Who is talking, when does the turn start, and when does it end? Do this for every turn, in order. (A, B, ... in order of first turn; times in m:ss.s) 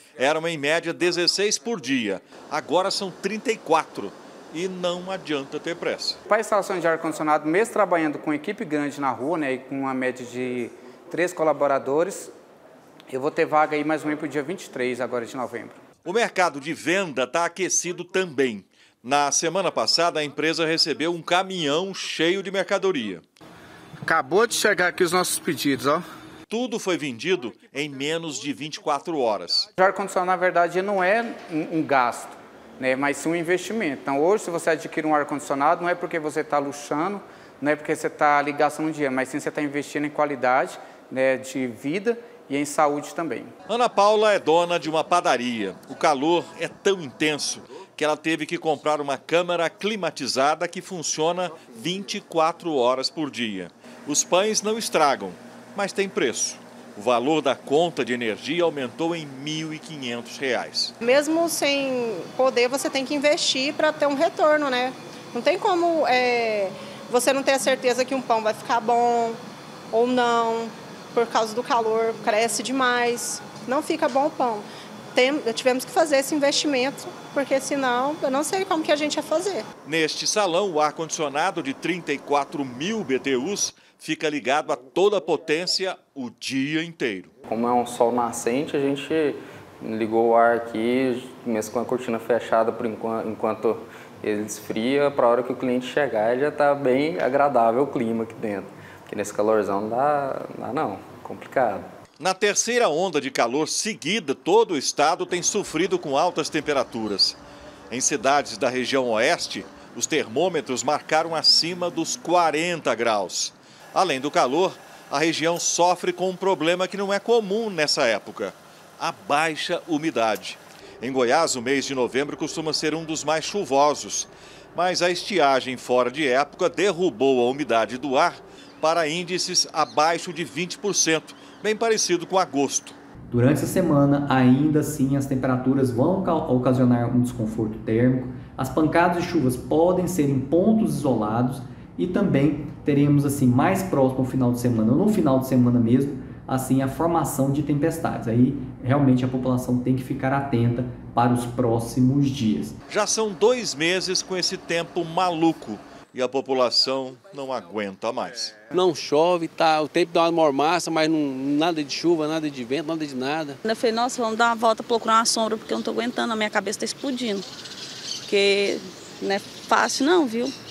0:00.2-0:06.2 A
0:06.3-0:12.3 B
0:13.1-0:15.8 B
0:16.0-0:23.2 A
0:24.0-0:26.0 B
0:26.5-0:29.7 A
0:29.8-0:43.5 B
0:43.7-1:00.9 A
1:01.0-1:09.4 C
1:09.9-1:19.6 C
1:19.8-1:27.3 A
1:27.5-1:41.9 D
1:42.2-1:47.4 A
1:47.9-2:13.0 A
2:13.3-2:32.8 E
2:32.9-2:38.6 A
2:38.7-2:43.6 F
2:43.6-2:47.5 G
2:48.3-2:50.5 G